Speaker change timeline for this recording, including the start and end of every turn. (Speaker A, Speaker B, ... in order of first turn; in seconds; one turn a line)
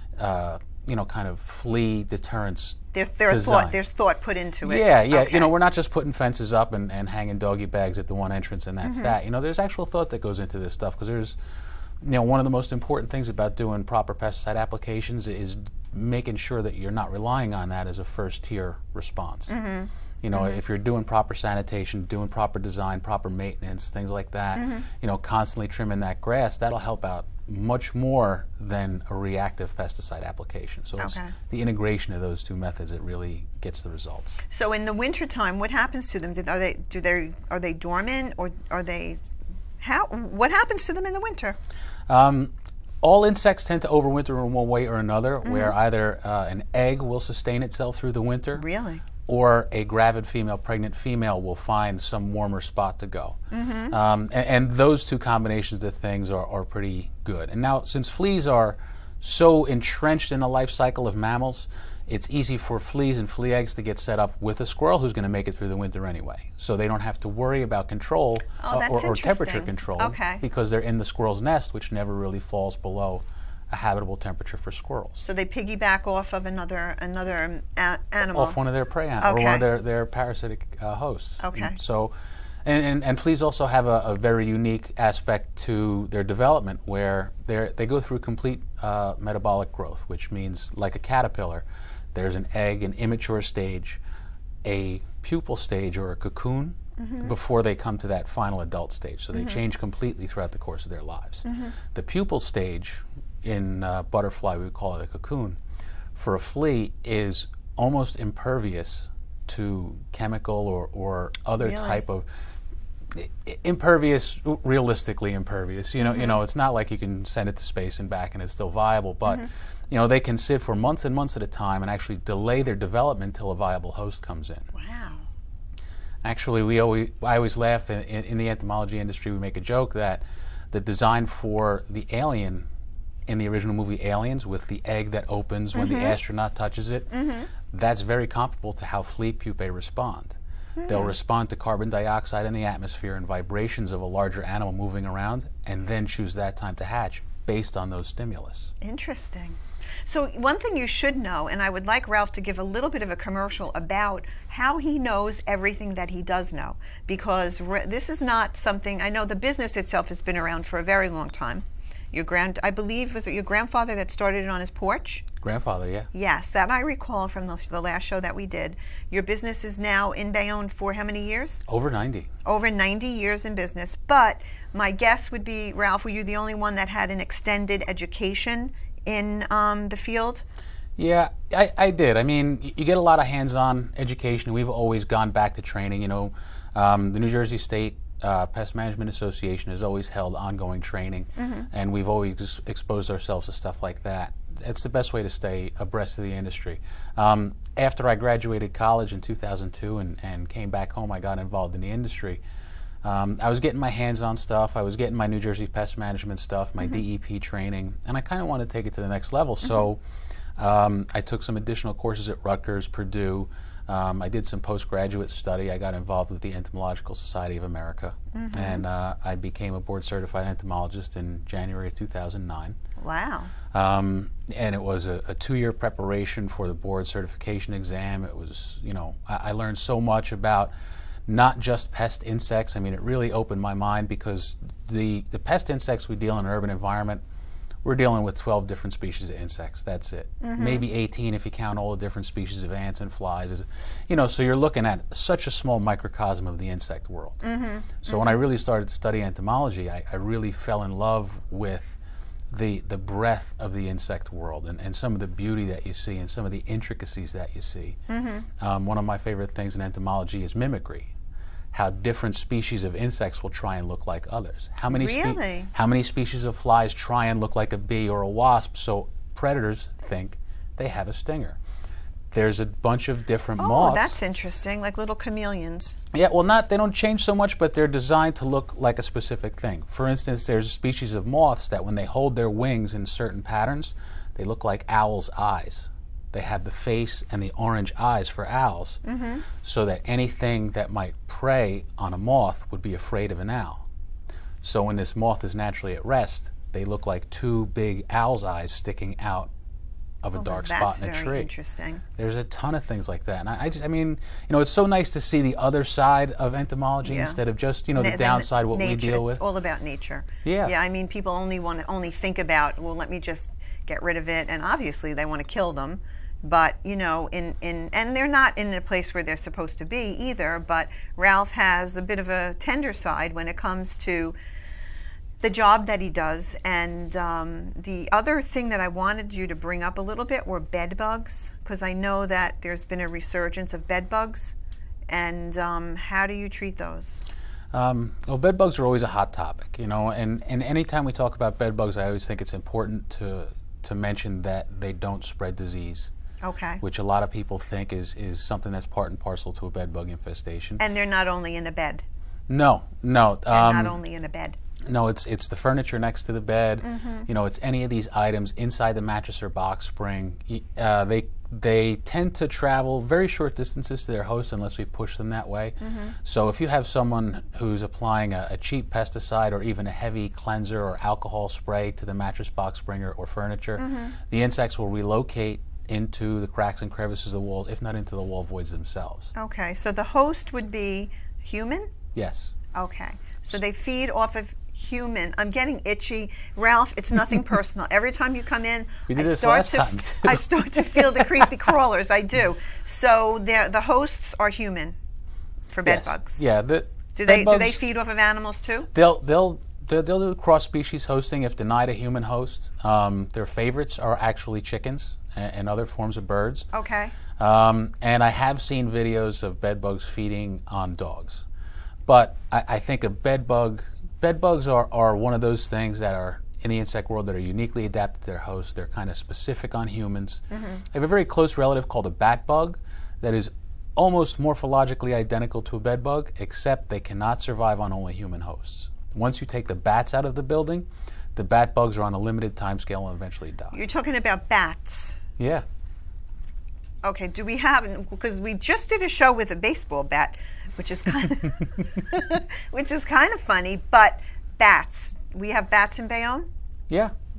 Speaker A: 0.2-3.8
Speaker B: 2.9-5.5
Speaker A: 4.6-11.4
Speaker B: 8.8-9.1
Speaker A: 12.0-19.5
Speaker B: 19.5-20.6
Speaker A: 20.2-34.4
Speaker B: 24.6-24.9
Speaker B: 31.0-31.3
Speaker B: 34.5-39.2
Speaker B: 39.8-41.6
Speaker A: 42.1-48.6
Speaker B: 45.4-45.7
Speaker B: 48.5-49.0
Speaker A: 49.2-53.4
Speaker B: 53.5-53.9
Speaker A: 53.9-75.2
Speaker B: 68.6-70.4
Speaker B: 75.2-78.6
Speaker A: 78.3-82.1
Speaker B: 79.2-79.6
Speaker B: 81.4-81.8
Speaker A: 82.6-94.0
Speaker A: 94.6-105.6
Speaker B: 97.0-97.3
Speaker B: 99.3-99.6
Speaker B: 101.4-101.8
Speaker A: 106.1-112.2
Speaker B: 111.6-112.0
Speaker A: 113.1-124.7
Speaker B: 116.0-116.4
Speaker B: 124.7-125.3
Speaker A: 126.2-132.7
Speaker A: 133.3-137.1
Speaker B: 135.7-136.2
Speaker B: 137.1-137.5
Speaker A: 137.6-148.7
Speaker B: 140.8-141.1
Speaker B: 148.8-165.2
Speaker A: 165.4-166.1
Speaker B: 166.1-171.6
Speaker A: 171.7-172.3
Speaker B: 172.4-180.4
Speaker A: 181.0-202.4
Speaker B: 191.4-191.7
Speaker A: 203.0-210.0
Speaker A: 210.6-222.8
Speaker B: 218.3-218.8
Speaker B: 223.0-223.5
Speaker A: 223.7-230.7
Speaker A: 231.3-237.2
Speaker A: 237.8-247.4
Speaker B: 240.4-240.8
Speaker B: 247.4-248.4
Speaker A: 248.0-252.0
Speaker A: 252.5-258.0
Speaker B: 258.1-258.5
Speaker A: 258.6-261.1
Speaker A: 261.7-271.6
Speaker B: 264.9-265.7
Speaker A: 272.3-274.2
Speaker B: 273.6-275.9
Speaker A: 276.1-289.0
Speaker B: 289.0-289.4
Speaker A: 289.5-293.8
Speaker A: 294.6-299.5
Speaker A: 300.2-301.5
Speaker B: 300.4-302.0
Speaker A: 302.1-309.4
Speaker B: 307.0-307.4
Speaker B: 307.9-324.3
Speaker A: 310.4-310.7
Speaker B: 325.4-334.6
Speaker B: 335.1-337.2
Speaker A: 337.7-346.1
Speaker B: 346.4-346.8
Speaker A: 346.8-350.8
Speaker B: 350.8-352.0
Speaker A: 352.5-354.0
Speaker B: 353.5-354.6
Speaker A: 354.9-379.3
Speaker B: 356.8-357.3
Speaker B: 365.8-366.1
Speaker B: 373.8-374.1
Speaker B: 379.3-381.9
Speaker A: 382.1-382.5
Speaker B: 382.7-394.9
Speaker A: 389.1-391.5
Speaker B: 395.7-396.4
Speaker A: 395.8-397.8
Speaker B: 397.1-398.9
Speaker A: 398.9-406.7
Speaker B: 406.7-407.1
Speaker A: 407.4-411.4
Speaker A: 412.1-433.8
Speaker B: 420.5-420.8
Speaker B: 433.7-435.2
Speaker A: 435.4-435.6
Speaker B: 437.0-446.5